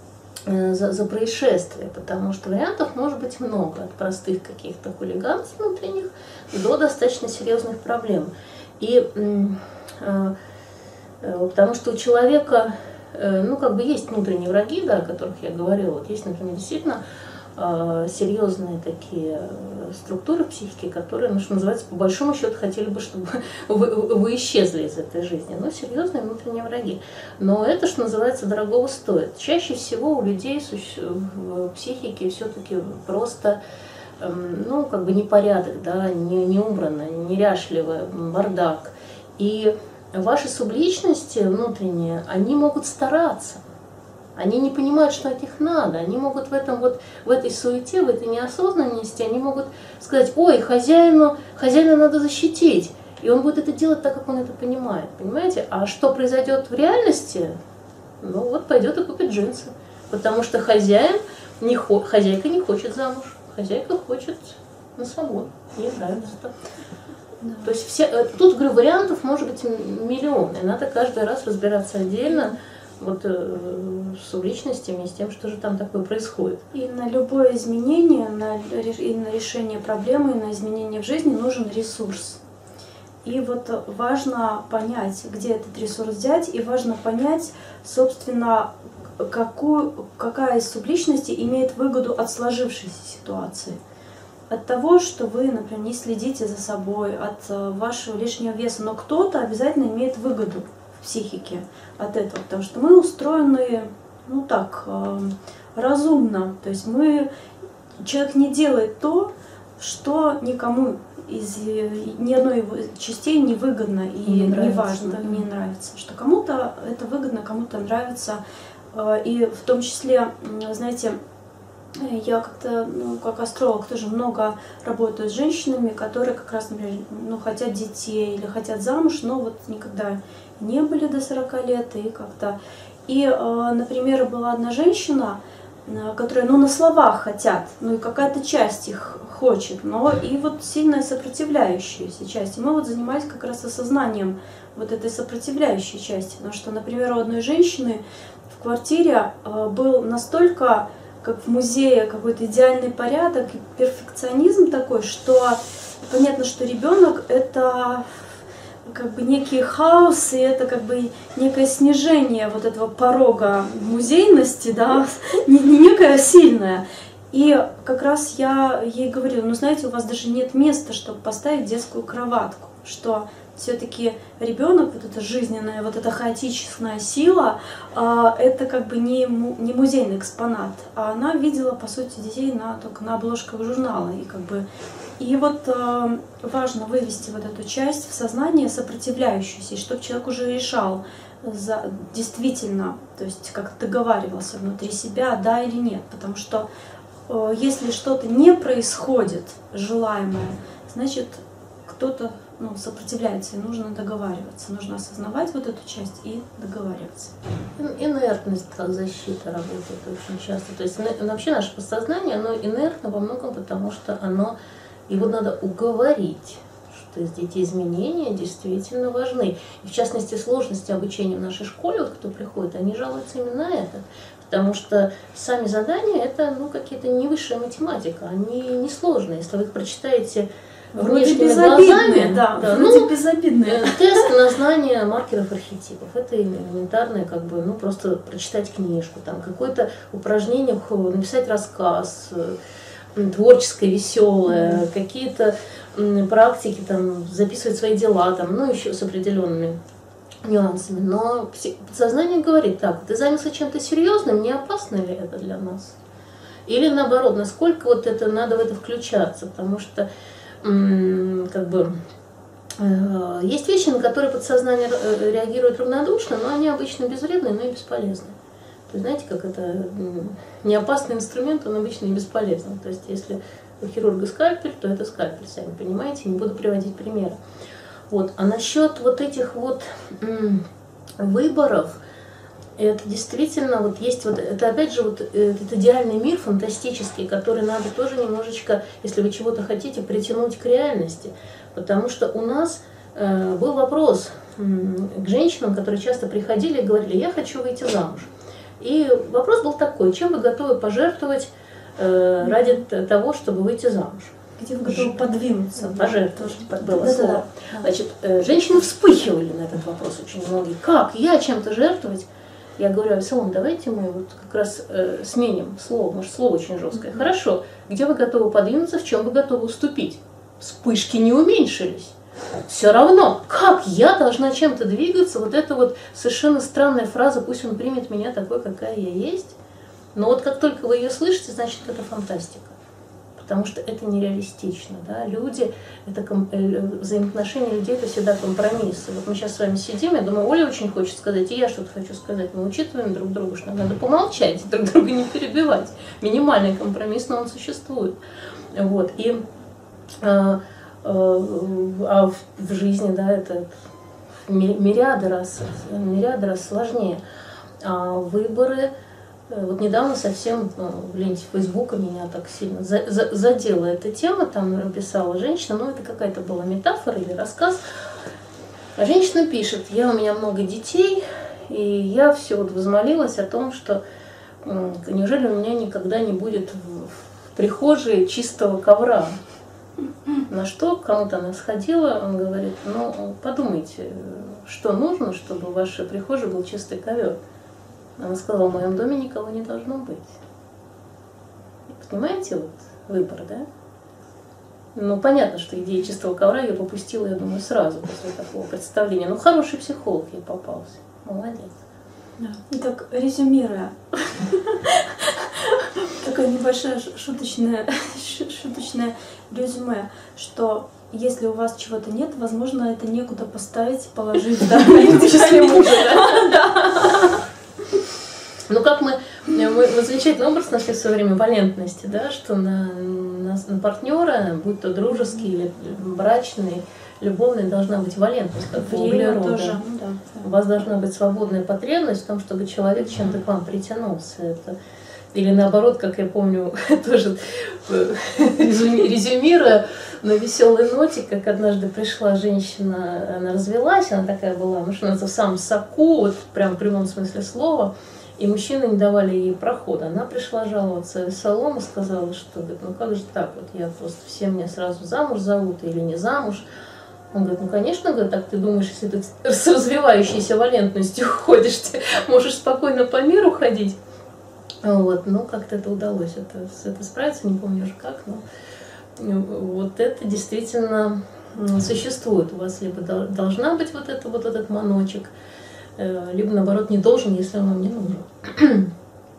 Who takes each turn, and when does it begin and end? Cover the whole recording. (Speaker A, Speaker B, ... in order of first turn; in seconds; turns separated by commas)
Speaker A: 0.5-10.3, Speaker A: 11.2-17.0, Speaker A: 17.6-33.6, Speaker A: 34.2-43.6, Speaker A: 44.4-57.5, Speaker A: 58.2-66.5, Speaker B: 67.4-67.7, Speaker A: 67.6-76.6, Speaker B: 76.7-82.4, Speaker B: 83.2-93.8, Speaker B: 94.5-107.3, Speaker B: 108.0-118.4, Speaker A: 114.2-115.4, Speaker B: 118.9-121.2, Speaker B: 121.9-158.1, Speaker B: 158.8-184.6, Speaker B: 185.2-196.7, Speaker B: 197.3-207.3, Speaker A: 207.8-214.6, Speaker A: 215.1-233.1, Speaker B: 230.9-234.3, Speaker A: 233.7-242.6, Speaker A: 243.2-249.8, Speaker B: 244.5-244.8, Speaker A: 250.4-255.9, Speaker A: 256.7-260.1, Speaker A: 260.6-262.0, Speaker A: 262.8-268.3, Speaker A: 268.9-277.4, Speaker A: 278.1-280.6, Speaker A: 281.2-282.0, Speaker A: 282.8-304.3, Speaker B: 302.4-302.7, Speaker B: 304.6-307.9, Speaker A: 304.9-312.3, Speaker A: 312.8-322.1, Speaker A: 322.7-329.5, Speaker A: 330.1-332.7, Speaker A: 333.4-348.2, Speaker A: 348.7-349.4, Speaker A: 350.2-353.7, Speaker A: 354.4-357.2, Speaker A: 357.8-358.9, Speaker A: 359.5-367.8, Speaker A: 369.0-374.0, Speaker A: 374.6-379.3, Speaker A: 380.5-387.4, Speaker A: 388.2-390.4, Speaker A: 391.9-393.6, Speaker A: 394.9-401.7, Speaker B: 402.4-417.3, Speaker A: 414.7-416.5, Speaker A: 418.7-429.8, Speaker B: 428.8-430.5, Speaker A: 430.4-434.8, Speaker A: 435.3-456.6, Speaker A: 457.3-463.9, Speaker A: 464.8-468.4, Speaker A: 469.2-475.3, Speaker A: 476.0-478.9